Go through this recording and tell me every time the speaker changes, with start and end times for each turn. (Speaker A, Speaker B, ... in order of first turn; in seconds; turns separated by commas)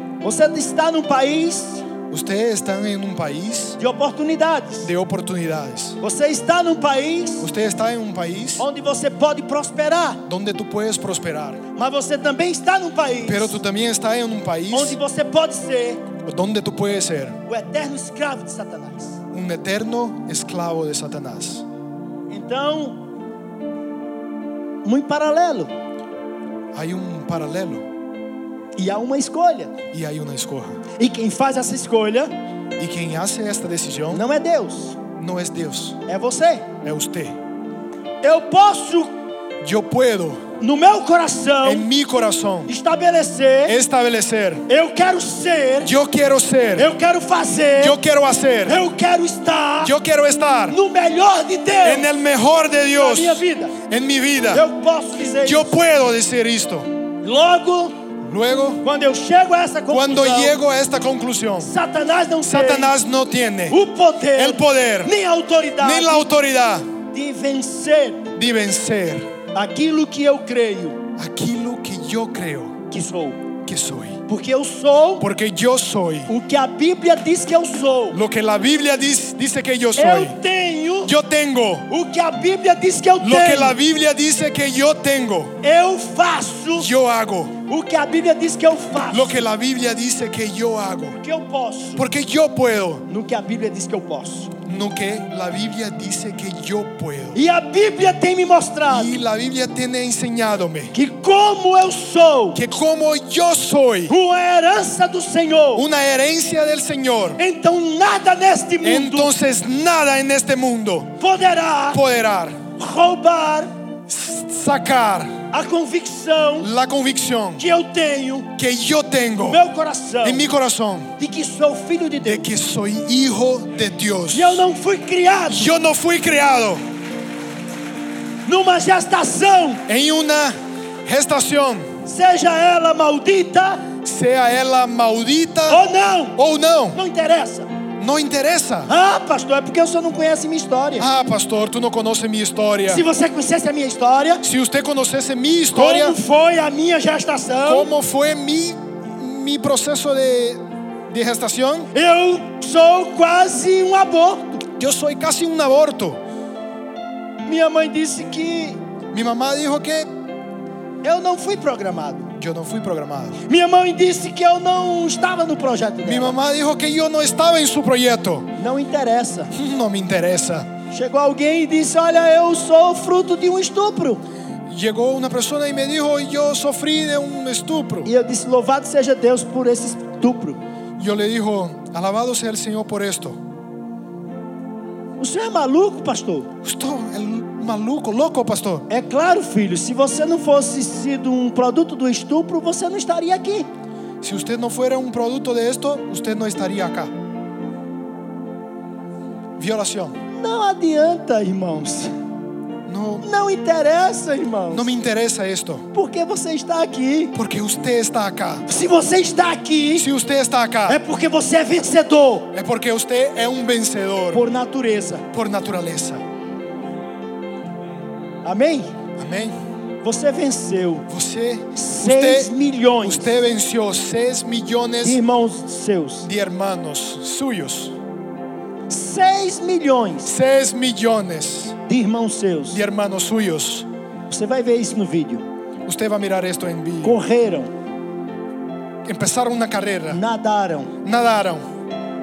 Speaker A: 0.2-1.9, Speaker B: 2.1-3.8, Speaker A: 3.8-4.9, Speaker B: 4.8-6.0, Speaker A: 6.0-7.5, Speaker B: 7.4-8.7, Speaker A: 8.6-10.2, Speaker B: 10.3-11.6, Speaker A: 11.7-13.6, Speaker B: 13.3-15.0, Speaker A: 14.7-16.1, Speaker B: 16.2-17.4, Speaker A: 17.5-19.2, Speaker B: 19.3-21.6, Speaker A: 22.3-23.0, Speaker A: 24.8-25.7, Speaker B: 26.7-27.9, Speaker A: 28.8-29.8, Speaker B: 29.9-30.8, Speaker A: 31.0-32.3, Speaker B: 32.8-34.2, Speaker A: 34.1-35.0, Speaker B: 35.2-36.0, Speaker A: 36.1-36.7, Speaker B: 36.8-37.4, Speaker A: 38.2-39.1, Speaker B: 39.6-40.4, Speaker A: 40.6-41.9, Speaker B: 41.6-42.7, Speaker A: 42.7-43.8, Speaker B: 43.7-44.6, Speaker A: 44.7-45.9, Speaker B: 45.8-46.9, Speaker A: 46.8-48.0, Speaker B: 47.8-48.8, Speaker A: 48.7-50.0, Speaker B: 49.8-50.8, Speaker A: 50.7-52.1, Speaker B: 51.8-54.7, Speaker A: 52.9-53.8, Speaker A: 54.5-55.7, Speaker B: 55.4-56.9, Speaker A: 57.2-58.0, Speaker B: 58.3-58.8, Speaker A: 58.8-60.6, Speaker B: 59.9-61.7, Speaker A: 61.6-63.0, Speaker B: 62.4-63.8, Speaker A: 63.7-66.3, Speaker B: 64.3-65.1, Speaker B: 65.8-66.9, Speaker A: 67.1-68.3, Speaker B: 68.4-69.3, Speaker A: 69.5-71.0, Speaker B: 71.2-72.8, Speaker A: 72.9-73.4, Speaker B: 73.7-74.2, Speaker A: 74.3-75.3, Speaker B: 75.2-76.3, Speaker A: 76.3-78.2, Speaker B: 78.1-80.4, Speaker A: 80.0-81.1, Speaker B: 81.0-81.9, Speaker A: 81.9-83.8, Speaker B: 83.2-85.6, Speaker A: 85.6-86.9, Speaker B: 86.8-87.6, Speaker A: 87.7-89.4, Speaker B: 89.1-91.2, Speaker A: 91.2-92.1, Speaker B: 92.0-93.0, Speaker A: 93.1-94.5, Speaker B: 94.7-97.4, Speaker A: 97.3-99.2, Speaker B: 98.9-101.0, Speaker A: 100.9-102.6, Speaker B: 102.5-104.2, Speaker A: 104.1-105.9, Speaker B: 105.8-107.4, Speaker A: 107.4-109.3, Speaker B: 108.8-111.2, Speaker A: 111.2-112.0, Speaker B: 111.9-112.6, Speaker A: 112.8-113.7, Speaker B: 114.1-115.4, Speaker A: 115.5-116.7, Speaker B: 116.6-117.7, Speaker A: 117.6-118.5, Speaker B: 118.6-119.6, Speaker A: 119.5-120.5, Speaker B: 120.2-121.1, Speaker A: 121.2-122.5, Speaker B: 122.2-124.7, Speaker A: 124.3-125.7, Speaker B: 125.5-126.8, Speaker A: 128.5-129.8, Speaker B: 129.9-131.9, Speaker A: 132.1-133.9, Speaker B: 134.0-135.8, Speaker A: 135.7-136.4, Speaker B: 136.4-137.0, Speaker A: 136.9-137.7, Speaker B: 138.0-138.9, Speaker A: 138.9-141.1, Speaker B: 141.0-143.1, Speaker A: 142.9-144.4, Speaker B: 144.4-146.2, Speaker A: 145.7-147.9, Speaker B: 147.7-151.9, Speaker A: 151.9-154.6, Speaker B: 154.8-156.2, Speaker A: 157.5-158.8, Speaker B: 159.1-160.1, Speaker A: 161.0-162.3, Speaker B: 162.4-163.4, Speaker A: 163.5-166.4, Speaker B: 166.0-168.5, Speaker A: 168.6-169.5, Speaker B: 169.5-170.7, Speaker A: 170.9-174.2, Speaker B: 174.7-178.1, Speaker A: 178.1-180.6, Speaker B: 181.0-183.4, Speaker A: 185.2-186.5, Speaker B: 186.6-188.9, Speaker A: 188.9-193.7, Speaker B: 194.2-197.1, Speaker B: 199.6-200.2, Speaker A: 200.3-202.1, Speaker B: 202.9-203.3, Speaker A: 203.2-204.9, Speaker B: 204.7-205.9, Speaker A: 205.9-207.3, Speaker B: 207.3-208.7, Speaker A: 208.7-210.1, Speaker B: 210.0-211.0, Speaker A: 210.9-212.5, Speaker B: 212.5-214.4, Speaker A: 214.3-215.2, Speaker B: 215.3-216.2, Speaker A: 218.4-218.9, Speaker B: 219.2-219.6, Speaker A: 220.0-221.1, Speaker B: 221.1-225.2, Speaker A: 221.8-223.4, Speaker A: 225.0-226.3, Speaker B: 226.2-228.0, Speaker A: 228.9-230.3, Speaker B: 230.3-231.8, Speaker A: 231.9-232.8, Speaker B: 232.7-233.9, Speaker A: 234.3-235.4, Speaker B: 235.9-237.2, Speaker A: 237.0-237.7, Speaker B: 239.1-240.2, Speaker A: 240.1-240.9, Speaker B: 241.0-241.6